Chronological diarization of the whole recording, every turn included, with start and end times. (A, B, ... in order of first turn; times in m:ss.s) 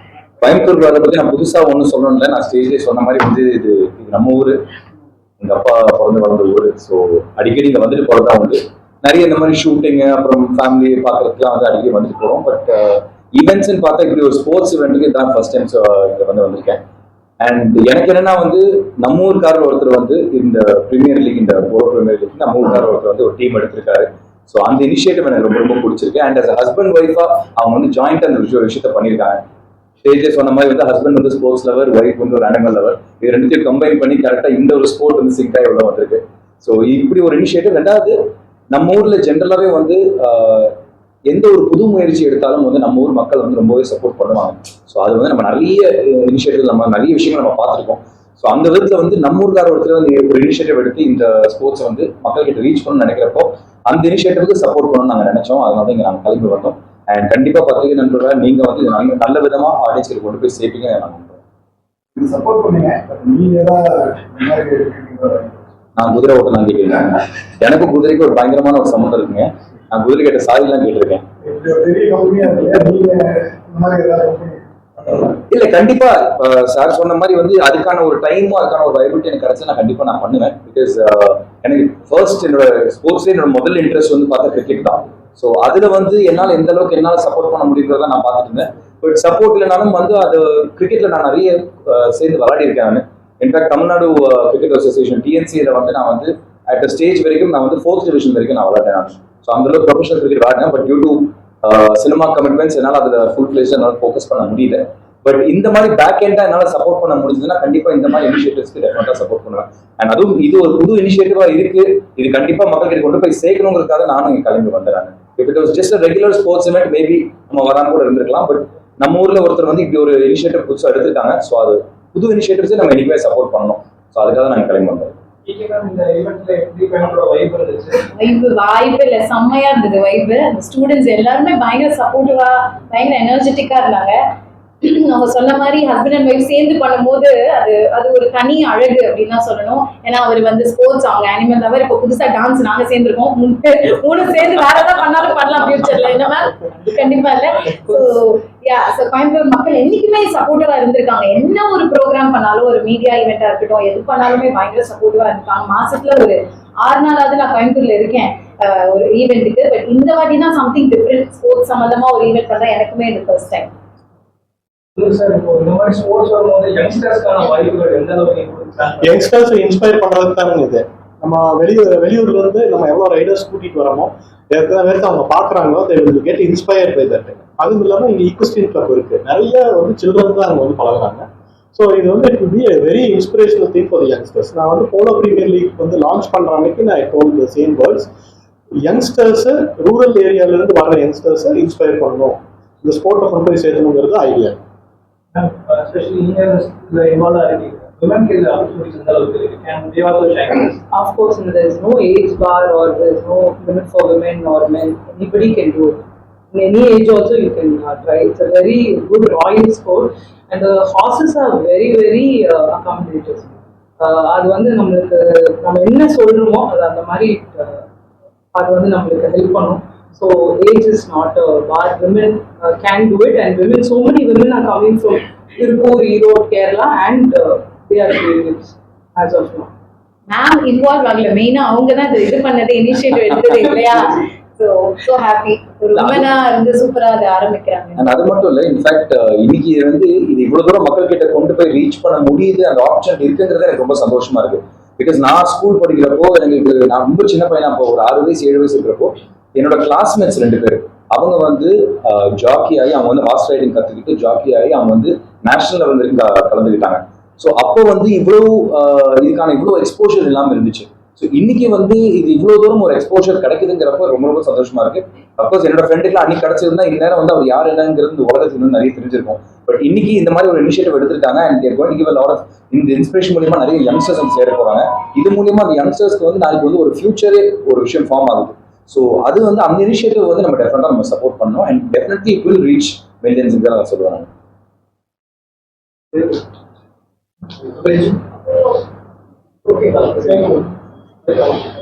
0:00.4-0:04.6 A
0:05.4-0:16.8 A
0:17.4-0:29.4 A
0:30.0-0:38.2 A
0:38.7-0:40.7 A
0:41.3-1:01.4 A
1:02.2-1:05.6 B
1:06.0-1:11.2 A
1:11.4-1:15.4 B
1:15.5-2:05.1 A
2:05.5-2:08.0 C
2:08.2-2:14.2 D
2:14.8-2:43.7 D
2:45.0-2:49.2 C
2:49.0-3:08.1 E
3:08.9-3:14.6 E
3:15.3-3:20.8 C
3:20.9-3:26.0 F
3:26.5-3:37.8 F
3:38.6-3:49.7 F
3:50.3-3:58.2 D
3:56.0-3:56.3 A
3:58.0-4:44.3 A
4:46.1-4:46.4 C
4:47.6-4:48.2 C
4:49.7-4:50.7 C
4:51.3-4:51.6 C